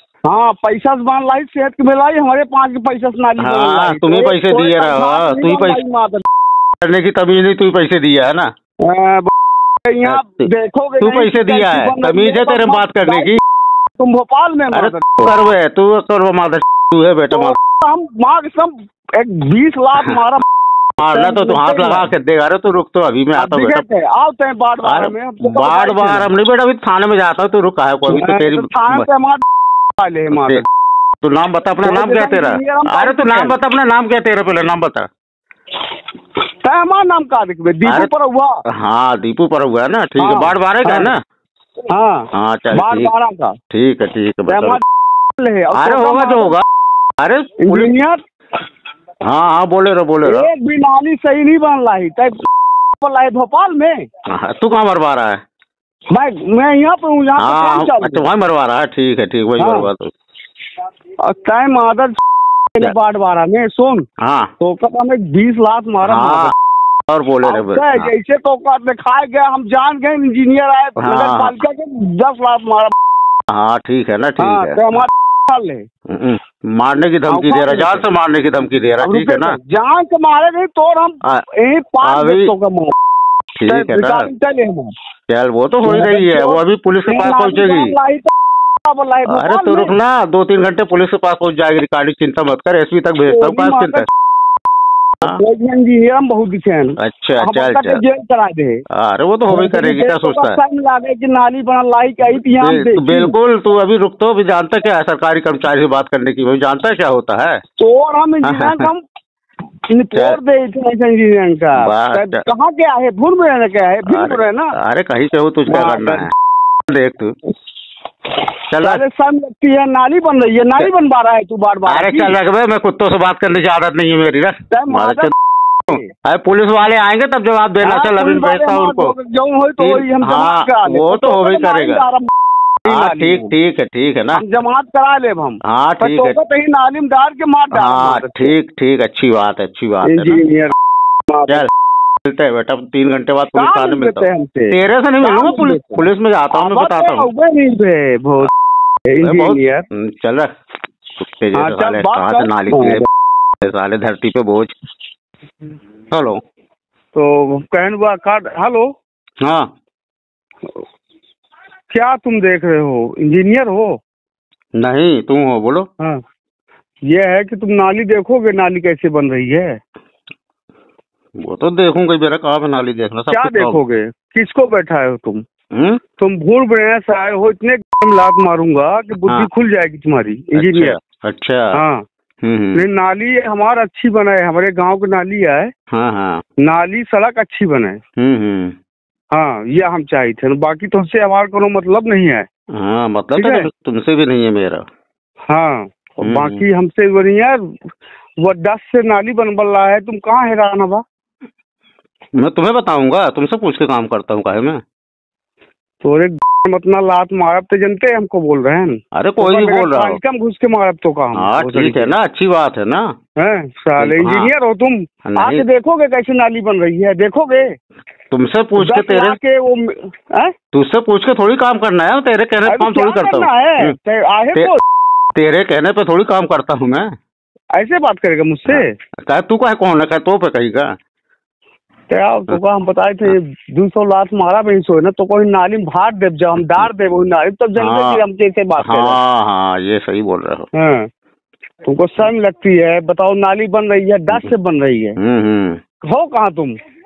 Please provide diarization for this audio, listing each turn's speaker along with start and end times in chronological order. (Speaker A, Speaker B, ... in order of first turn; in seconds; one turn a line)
Speaker A: 0.2-6.2
Speaker B: 3.4-5.8
Speaker B: 6.8-8.5
Speaker A: 8.8-9.3
Speaker A: 9.8-13.3
Speaker B: 10.0-10.5
Speaker B: 11.0-13.4
Speaker A: 14.0-15.3
Speaker B: 14.7-17.6
Speaker A: 17.3-20.4
Speaker A: 21.0-22.1
Speaker B: 21.0-23.8
Speaker A: 23.4-26.3
Speaker B: 24.8-29.1
Speaker A: 28.1-29.4
Speaker A: 30.0-30.6
Speaker B: 30.3-30.6
Speaker B: 31.2-35.1
Speaker A: 31.8-33.6
Speaker A: 36.5-38.6
Speaker B: 37.8-38.1
Speaker B: 38.7-41.2
Speaker A: 40.2-41.1
Speaker A: 41.9-43.6
Speaker B: 42.3-43.1
Speaker B: 43.7-44.8
Speaker A: 44.5-44.8
Speaker A: 45.4-46.5
Speaker B: 45.7-46.6
Speaker B: 47.2-47.9
Speaker A: 47.6-48.2
Speaker B: 49.2-50.5
Speaker A: 50.2-52.5
Speaker A: 53.0-54.1
Speaker B: 54.2-55.4
Speaker A: 56.1-58.2
Speaker B: 57.4-60.1
Speaker A: 59.6-59.9
Speaker A: 61.2-62.2
Speaker A: 62.7-64.0
Speaker B: 64.2-64.5
Speaker A: 64.6-66.5
Speaker B: 66.0-66.5
Speaker B: 67.1-68.1
Speaker A: 67.4-72.9
Speaker B: 71.0-71.6
Speaker B: 73.5-75.1
Speaker A: 74.4-75.9
Speaker B: 76.1-79.6
Speaker A: 77.3-78.0
Speaker A: 79.0-82.9
Speaker B: 82.0-82.5
Speaker B: 83.6-84.3
Speaker A: 83.7-84.9
Speaker B: 85.3-87.9
Speaker A: 85.8-88.3
Speaker A: 88.8-89.9
Speaker B: 89.3-94.1
Speaker A: 93.2-94.1
Speaker A: 95.2-98.8
Speaker B: 97.0-98.0
Speaker B: 98.9-100.6
Speaker A: 99.5-103.3
Speaker B: 102.6-107.6
Speaker A: 107.8-109.0
Speaker B: 108.4-108.9
Speaker A: 109.9-114.8
Speaker B: 110.1-110.4
Speaker B: 111.8-112.4
Speaker B: 114.0-116.3
Speaker A: 115.7-116.3
Speaker B: 116.9-117.3
Speaker B: 118.7-119.0
Speaker A: 118.8-122.3
Speaker B: 121.8-125.3
Speaker A: 124.7-125.3
Speaker A: 125.8-126.1
Speaker B: 125.9-129.1
Speaker A: 127.8-132.3
Speaker B: 129.8-132.0
Speaker A: 132.8-133.5
Speaker B: 132.8-134.4
Speaker A: 134.3-138.5
Speaker B: 135.6-136.4
Speaker B: 137.7-140.4
Speaker A: 140.0-140.7
Speaker A: 141.3-141.7
Speaker B: 142.2-147.3
Speaker A: 143.5-148.5
Speaker A: 149.1-149.8
Speaker B: 149.2-150.5
Speaker B: 151.2-153.0
Speaker A: 151.5-153.0
Speaker B: 153.6-154.7
Speaker B: 156.1-156.4
Speaker A: 157.1-158.9
Speaker B: 159.4-159.7
Speaker A: 161.9-164.0
Speaker B: 164.8-165.9
Speaker A: 167.0-169.8
Speaker B: 171.3-173.8
Speaker A: 173.3-175.4
Speaker B: 175.7-176.0
Speaker A: 176.2-181.0
Speaker B: 180.5-181.8
Speaker A: 181.7-182.0
Speaker B: 182.4-182.8
Speaker A: 182.7-185.7
Speaker B: 185.9-186.4
Speaker A: 186.6-188.0
Speaker B: 188.2-188.8
Speaker A: 189.3-192.5
Speaker B: 192.7-194.9
Speaker A: 193.3-193.7
Speaker A: 195.5-197.7
Speaker B: 196.2-196.6
Speaker A: 198.4-201.0
Speaker B: 202.3-204.8
Speaker A: 206.0-212.1
Speaker B: 209.1-210.2
Speaker B: 211.3-213.2
Speaker A: 213.3-217.7
Speaker B: 214.0-214.5
Speaker B: 215.2-215.6
Speaker B: 218.3-219.4
Speaker A: 218.8-220.5
Speaker B: 220.7-223.9
Speaker A: 222.7-224.8
Speaker B: 225.3-227.1
Speaker A: 227.7-228.9
Speaker B: 228.7-230.9
Speaker A: 232.1-239.2
Speaker B: 237.8-238.2
Speaker B: 238.8-240.7
Speaker A: 240.7-241.1
Speaker A: 241.8-245.2
Speaker B: 245.2-245.8
Speaker A: 246.0-246.8